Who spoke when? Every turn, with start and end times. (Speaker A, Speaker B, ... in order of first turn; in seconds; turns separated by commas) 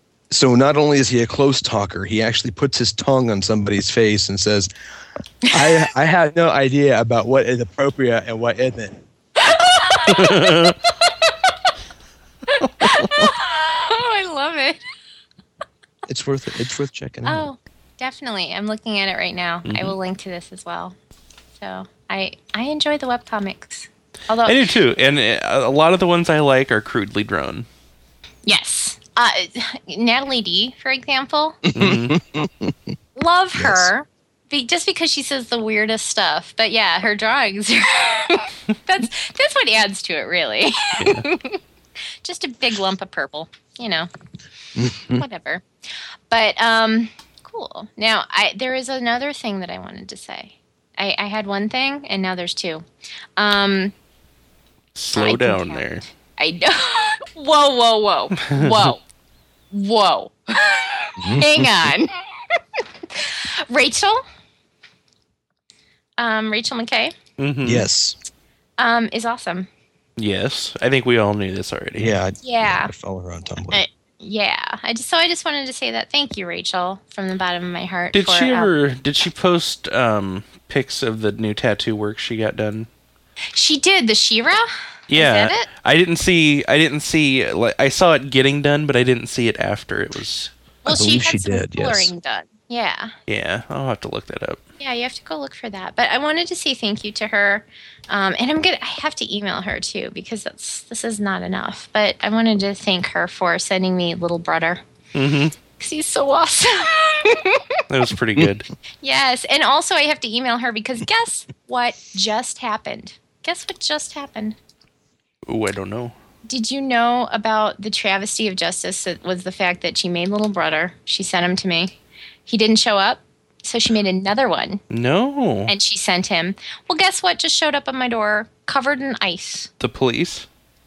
Speaker A: 0.3-4.7, Speaker B: 5.4-5.9, Speaker A: 5.5-8.9, Speaker B: 9.4-10.4, Speaker C: 10.1-10.8, Speaker B: 11.2-11.5, Speaker B: 12.5-14.8, Speaker C: 12.6-13.3, Speaker A: 16.1-17.5, Speaker B: 17.2-20.9, Speaker C: 19.6-19.9, Speaker B: 21.6-24.7, Speaker C: 24.4-27.6, Speaker B: 28.4-31.6, Speaker A: 31.7-32.8, Speaker C: 31.7-32.2, Speaker B: 33.1-41.6, Speaker A: 33.5-33.9, Speaker C: 41.0-41.2, Speaker B: 42.2-44.1, Speaker A: 44.8-45.2, Speaker B: 45.1-45.6, Speaker B: 46.3-52.8, Speaker B: 53.4-53.9, Speaker C: 54.9-56.0, Speaker B: 55.1-59.0, Speaker C: 58.5-58.9, Speaker B: 59.7-62.1, Speaker A: 61.2-61.9, Speaker B: 63.1-64.2, Speaker B: 66.2-67.1, Speaker C: 67.4-67.8, Speaker A: 67.6-68.2, Speaker B: 68.8-69.7, Speaker C: 70.2-72.2, Speaker A: 72.0-73.8, Speaker B: 72.4-72.9, Speaker B: 73.7-78.7, Speaker C: 78.1-82.9, Speaker B: 83.5-85.7, Speaker C: 85.1-90.5, Speaker B: 90.8-93.1, Speaker A: 90.8-92.1, Speaker C: 93.3-94.6, Speaker B: 94.8-104.8, Speaker C: 105.1-105.5, Speaker B: 105.8-107.8, Speaker C: 107.9-108.7, Speaker B: 109.0-114.5, Speaker C: 115.5-116.1, Speaker B: 116.5-121.9, Speaker B: 122.5-124.8, Speaker C: 124.9-125.7, Speaker B: 125.7-129.7, Speaker C: 129.8-130.4